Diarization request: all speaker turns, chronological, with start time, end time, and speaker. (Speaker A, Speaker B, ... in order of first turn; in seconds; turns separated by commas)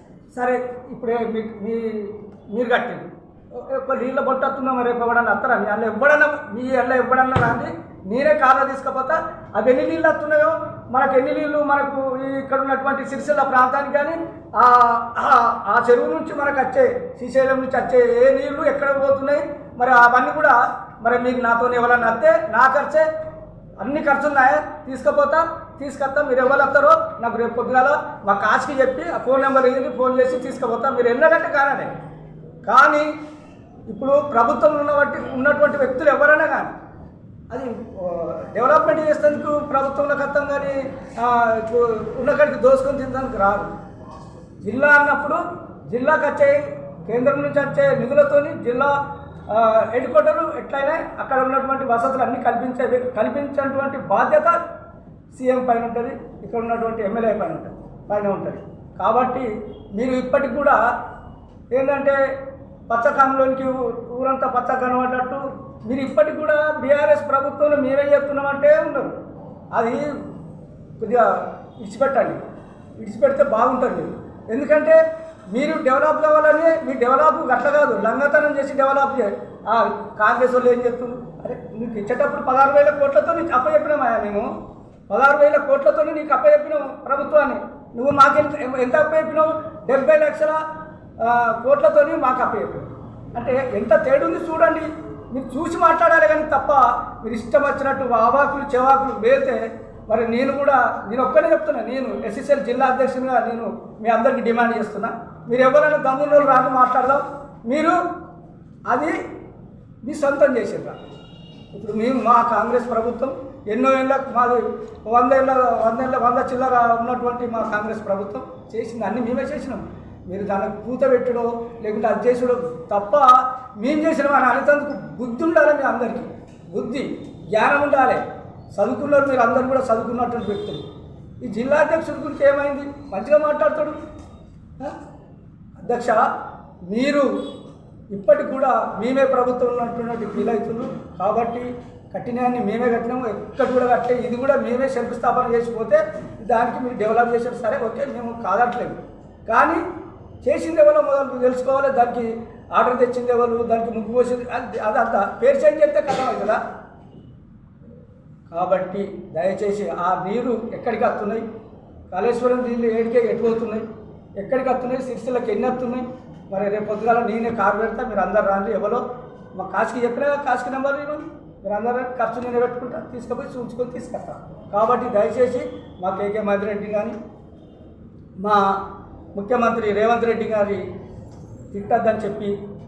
Speaker A: 0.3-23.1, Speaker A: 23.8-31.9, Speaker A: 32.6-33.1, Speaker A: 33.9-36.7, Speaker A: 37.5-43.7, Speaker A: 44.6-48.9, Speaker A: 49.5-54.5, Speaker A: 55.3-60.8, Speaker A: 61.7-62.2, Speaker A: 62.9-69.1, Speaker A: 69.7-70.1, Speaker A: 71.0-72.4, Speaker A: 73.0-84.5, Speaker A: 85.1-90.6, Speaker A: 91.2-108.0, Speaker A: 108.9-109.2, Speaker A: 110.0-111.0, Speaker A: 111.7-128.2, Speaker A: 128.7-130.8, Speaker A: 131.4-134.0, Speaker A: 135.8-136.2, Speaker A: 136.9-137.3, Speaker A: 138.1-149.8, Speaker A: 150.4-156.6, Speaker A: 158.5-161.4, Speaker A: 162.1-163.8, Speaker A: 164.4-169.0, Speaker A: 169.5-177.2, Speaker A: 178.4-178.8, Speaker A: 179.3-180.8, Speaker A: 181.7-182.5